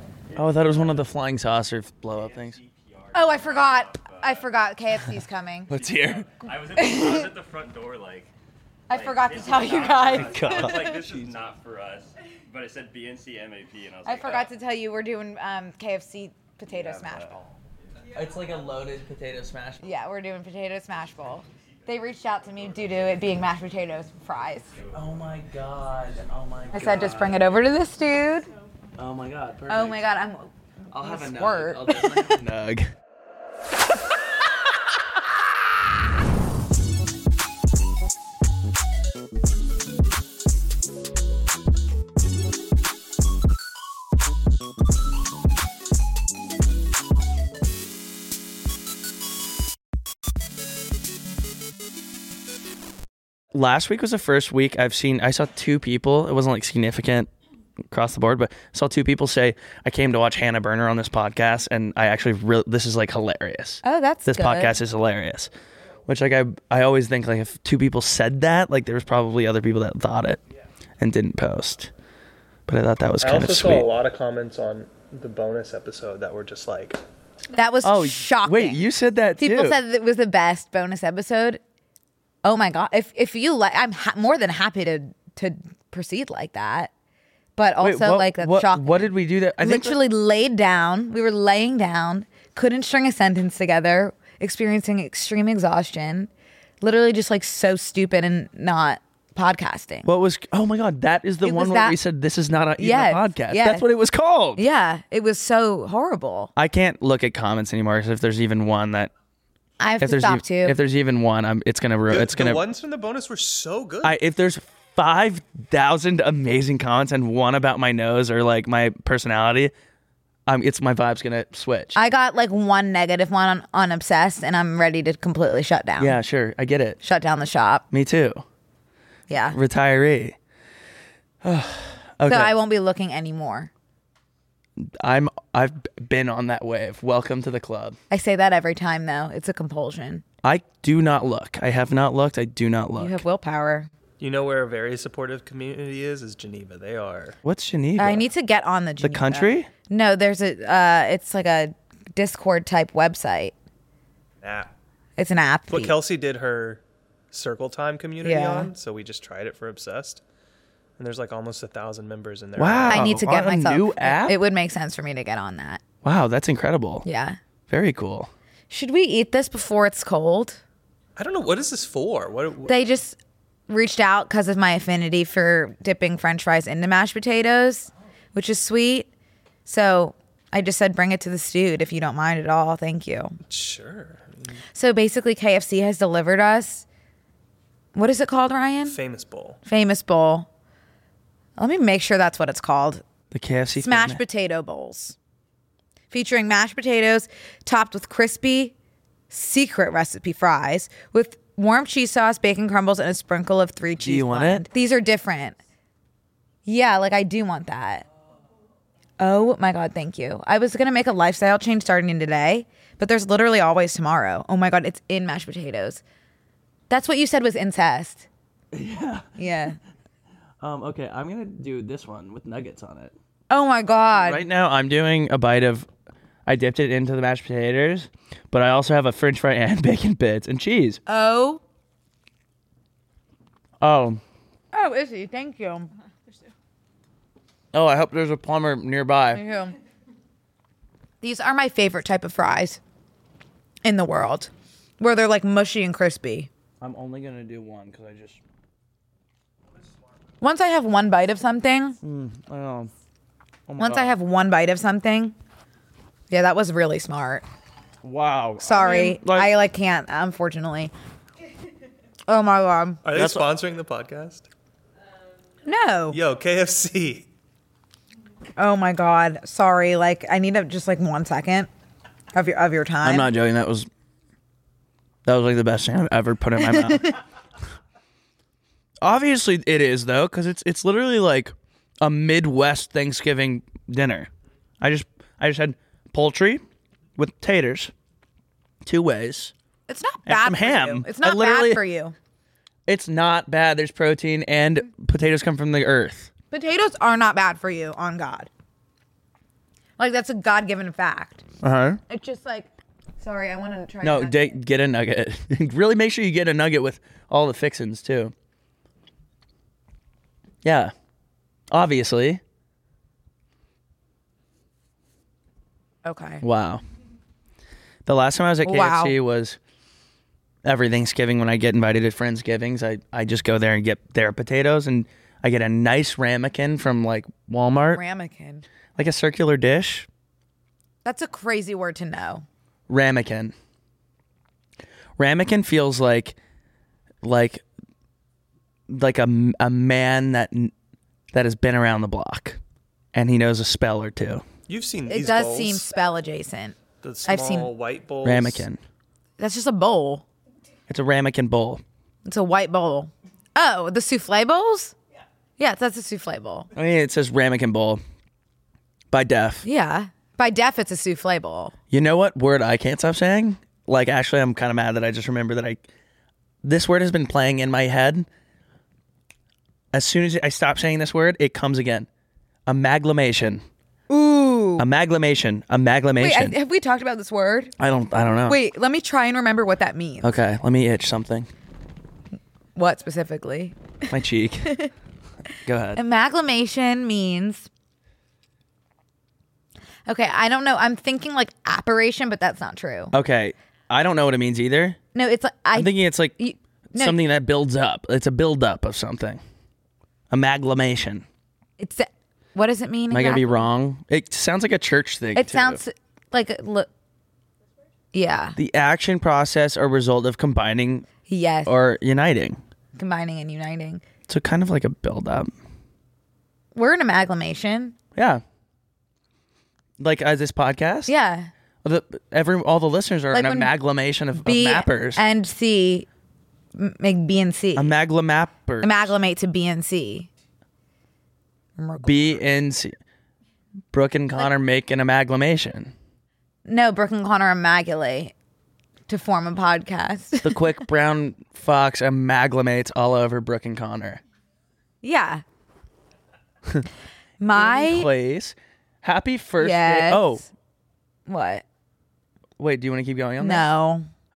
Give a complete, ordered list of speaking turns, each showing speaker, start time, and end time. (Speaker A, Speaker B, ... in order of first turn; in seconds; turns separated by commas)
Speaker A: 0.3-1.1, Speaker B: 0.3-2.6, Speaker A: 2.0-4.5, Speaker C: 3.1-5.7, Speaker B: 5.7-6.2, Speaker A: 5.7-8.3, Speaker C: 6.8-7.3, Speaker C: 8.9-11.0, Speaker A: 8.9-14.5, Speaker B: 10.1-11.1, Speaker C: 14.0-17.4, Speaker A: 16.7-18.4, Speaker B: 18.1-19.9, Speaker C: 19.8-24.7, Speaker A: 21.5-23.7, Speaker A: 24.6-27.3, Speaker B: 24.9-27.5, Speaker C: 26.7-28.5, Speaker B: 28.9-30.0, Speaker C: 29.7-32.4, Speaker B: 30.9-32.9, Speaker B: 53.5-57.3, Speaker B: 57.9-65.5, Speaker C: 63.8-64.7, Speaker B: 66.1-70.4, Speaker B: 71.0-71.9, Speaker B: 72.7-73.9, Speaker D: 73.2-77.0, Speaker C: 77.5-78.8, Speaker B: 77.8-79.8, Speaker C: 79.4-81.6, Speaker C: 82.4-86.9, Speaker C: 87.5-89.0, Speaker B: 87.8-90.0, Speaker C: 89.6-96.3, Speaker C: 96.8-100.1, Speaker B: 100.0-104.6, Speaker C: 101.4-102.0, Speaker C: 102.8-103.8, Speaker C: 104.5-106.5, Speaker B: 106.5-109.1, Speaker C: 109.8-110.8, Speaker B: 110.0-112.6, Speaker D: 112.1-114.1, Speaker B: 114.0-119.7, Speaker B: 120.5-122.0, Speaker C: 121.9-126.2, Speaker B: 126.0-127.0, Speaker C: 127.0-127.8, Speaker B: 127.9-128.4, Speaker C: 129.3-129.6, Speaker B: 129.5-130.3, Speaker B: 131.4-132.5, Speaker C: 132.2-133.7, Speaker B: 134.8-138.0, Speaker C: 138.1-140.2, Speaker B: 140.4-143.2, Speaker C: 143.0-143.9, Speaker D: 144.2-147.4, Speaker B: 147.4-148.2, Speaker C: 148.0-153.5, Speaker B: 149.0-149.7, Speaker D: 154.4-154.7, Speaker C: 155.2-155.9, Speaker D: 155.7-160.2, Speaker C: 158.2-158.7, Speaker D: 161.0-163.0, Speaker B: 162.6-164.4, Speaker C: 162.8-165.8, Speaker B: 166.0-167.0, Speaker C: 167.0-167.4, Speaker B: 167.7-168.3, Speaker C: 168.7-170.6, Speaker D: 171.2-172.7, Speaker C: 172.7-173.2, Speaker C: 173.7-179.1, Speaker C: 179.7-183.4, Speaker D: 183.5-184.6, Speaker C: 184.7-186.8, Speaker C: 187.9-188.9, Speaker D: 188.8-189.6, Speaker C: 189.7-190.5, Speaker C: 191.6-193.0, Speaker B: 193.3-194.2, Speaker C: 193.8-195.2, Speaker C: 196.1-198.7, Speaker C: 199.3-205.6, Speaker B: 204.0-204.6, Speaker C: 206.7-208.0, Speaker C: 209.2-216.0, Speaker C: 216.9-218.3, Speaker B: 218.7-219.4, Speaker C: 219.4-219.8, Speaker B: 220.6-223.1, Speaker C: 223.5-224.4, Speaker B: 224.2-225.9, Speaker B: 226.4-231.0, Speaker C: 231.1-231.6, Speaker B: 233.8-234.2, Speaker C: 234.7-235.9, Speaker B: 237.7-239.4, Speaker C: 239.3-239.7, Speaker C: 241.2-242.8, Speaker C: 243.8-246.5, Speaker B: 246.8-248.4, Speaker C: 250.4-252.0, Speaker B: 252.0-252.9, Speaker B: 253.7-254.1, Speaker C: 253.8-255.3, Speaker C: 256.3-257.4, Speaker B: 258.0-259.5, Speaker C: 258.6-260.9, Speaker C: 262.3-263.0, Speaker D: 263.0-264.4, Speaker B: 263.1-263.5, Speaker C: 265.6-266.2, Speaker D: 266.1-267.3, Speaker C: 268.6-271.7, Speaker C: 272.3-273.3, Speaker B: 273.0-273.9, Speaker B: 275.2-277.1, Speaker C: 276.6-277.1, Speaker B: 279.0-284.3, Speaker B: 284.8-286.6, Speaker B: 287.2-287.9, Speaker B: 288.8-289.5, Speaker C: 289.9-292.1, Speaker B: 290.2-291.8, Speaker B: 292.9-296.3, Speaker C: 296.5-298.5, Speaker C: 300.0-301.4, Speaker B: 301.6-302.0, Speaker C: 302.1-302.7, Speaker C: 303.2-304.5, Speaker B: 304.0-308.3, Speaker B: 310.6-310.9, Speaker B: 311.7-312.4, Speaker C: 316.0-316.4, Speaker B: 316.4-316.8, Speaker B: 318.1-319.6, Speaker C: 318.6-319.1, Speaker B: 320.6-328.0, Speaker C: 327.9-328.6, Speaker B: 328.9-330.1, Speaker C: 331.0-332.4, Speaker B: 332.9-333.5, Speaker B: 335.2-336.4, Speaker B: 337.2-337.6, Speaker B: 338.9-340.7, Speaker B: 341.3-342.6, Speaker B: 343.1-344.4, Speaker D: 344.7-345.9, Speaker C: 345.1-347.7, Speaker D: 347.0-348.6, Speaker B: 348.2-348.8, Speaker C: 349.4-350.2, Speaker B: 350.9-351.8, Speaker C: 352.2-354.9, Speaker C: 355.6-356.7, Speaker B: 356.7-358.0, Speaker B: 359.1-359.6, Speaker C: 359.6-361.7, Speaker B: 361.9-365.9, Speaker B: 366.6-368.3, Speaker B: 369.9-372.1, Speaker B: 372.7-373.6, Speaker C: 374.1-374.9, Speaker B: 374.8-376.6, Speaker C: 376.2-377.7, Speaker B: 377.8-378.6, Speaker C: 378.5-380.4, Speaker B: 380.2-381.5, Speaker C: 382.8-384.1, Speaker B: 384.1-384.8, Speaker B: 385.6-386.0, Speaker C: 385.9-387.7, Speaker C: 390.1-393.1, Speaker B: 393.1-395.0, Speaker C: 395.1-397.2, Speaker B: 395.7-396.4, Speaker B: 396.9-399.4, Speaker B: 400.3-401.2, Speaker C: 401.8-403.6, Speaker B: 403.1-405.8, Speaker C: 405.4-406.9, Speaker C: 408.1-408.6, Speaker B: 408.6-411.1, Speaker C: 411.3-411.7, Speaker B: 411.6-412.6, Speaker C: 412.9-414.0, Speaker B: 414.3-415.5, Speaker C: 416.7-417.9, Speaker B: 418.1-418.4, Speaker B: 420.0-421.1, Speaker C: 421.1-421.5, Speaker B: 421.8-425.2, Speaker C: 423.3-423.7, Speaker C: 424.4-426.1, Speaker C: 426.7-427.9, Speaker B: 427.8-429.1, Speaker C: 428.8-430.3, Speaker C: 431.8-432.4, Speaker B: 432.0-432.9, Speaker B: 433.9-435.9, Speaker C: 436.6-438.3, Speaker C: 439.1-440.8, Speaker B: 440.4-444.2, Speaker C: 445.0-445.4, Speaker C: 447.4-448.1, Speaker B: 447.5-450.4, Speaker C: 449.6-450.5, Speaker C: 451.3-451.6, Speaker B: 452.6-453.7, Speaker C: 453.4-454.1